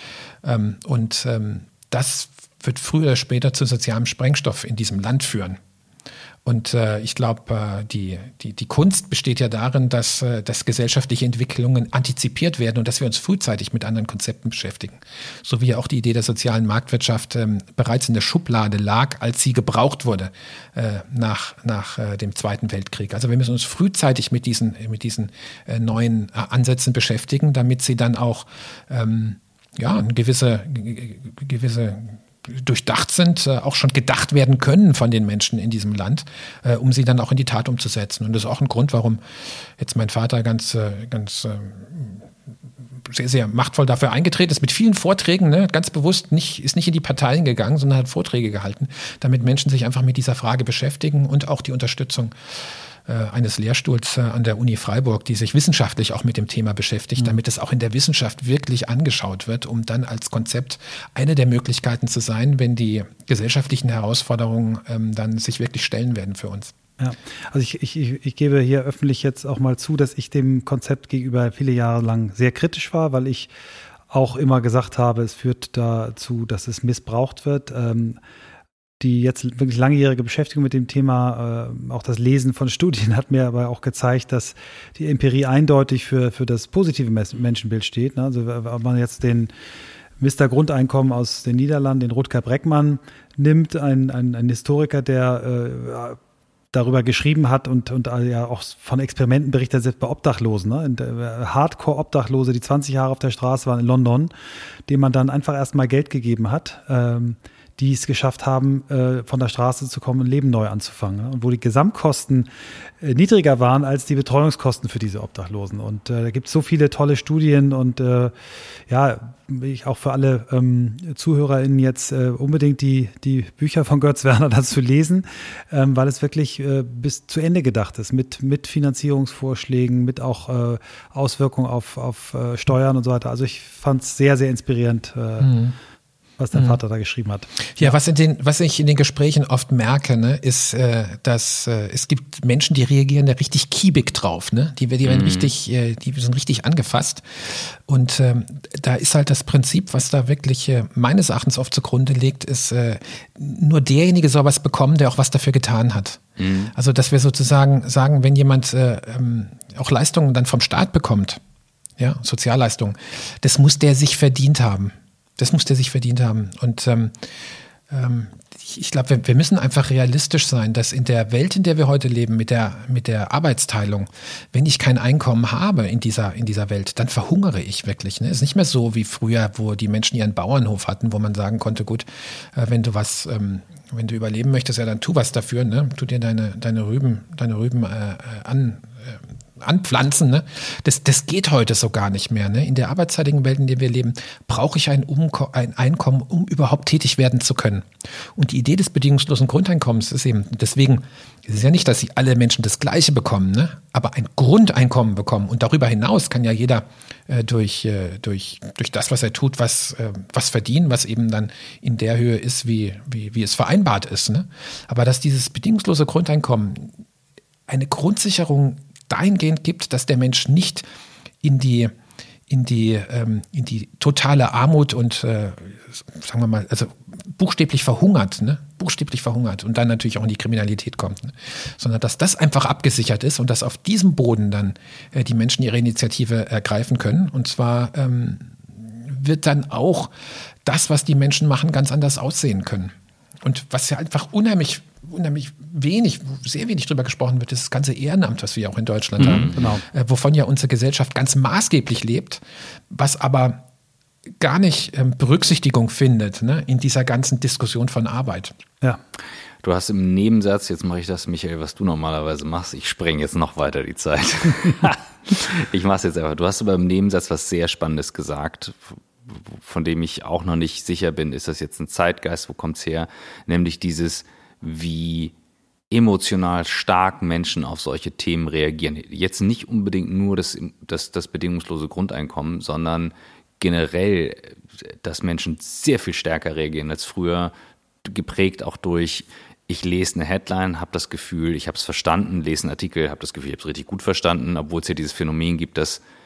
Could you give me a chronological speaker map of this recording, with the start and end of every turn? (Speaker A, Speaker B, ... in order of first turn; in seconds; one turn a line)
Speaker A: 0.4-5.6
Speaker A: 6.5-39.2
Speaker A: 39.8-42.3
Speaker A: 43.0-52.3
Speaker A: 53.1-66.7
Speaker B: 67.0-73.5
Speaker B: 74.1-78.2
Speaker B: 79.0-89.5
Speaker B: 90.2-96.2
Speaker B: 96.7-104.3
Speaker B: 104.9-112.5
Speaker B: 113.0-135.6
Speaker A: 135.4-135.7
Speaker B: 136.4-138.0
Speaker A: 136.5-136.8
Speaker A: 137.8-156.2
Speaker C: 145.1-145.5
Speaker C: 156.4-156.7
Speaker A: 156.7-161.4
Speaker A: 162.0-167.3
Speaker A: 167.9-216.9
Speaker A: 217.7-220.8
Speaker A: 221.4-221.9
Speaker A: 222.5-240.1
Speaker A: 240.7-253.6
Speaker C: 249.2-249.7
Speaker B: 249.4-249.8
Speaker A: 254.4-258.6
Speaker C: 259.6-275.3
Speaker C: 275.9-287.5
Speaker C: 288.0-296.0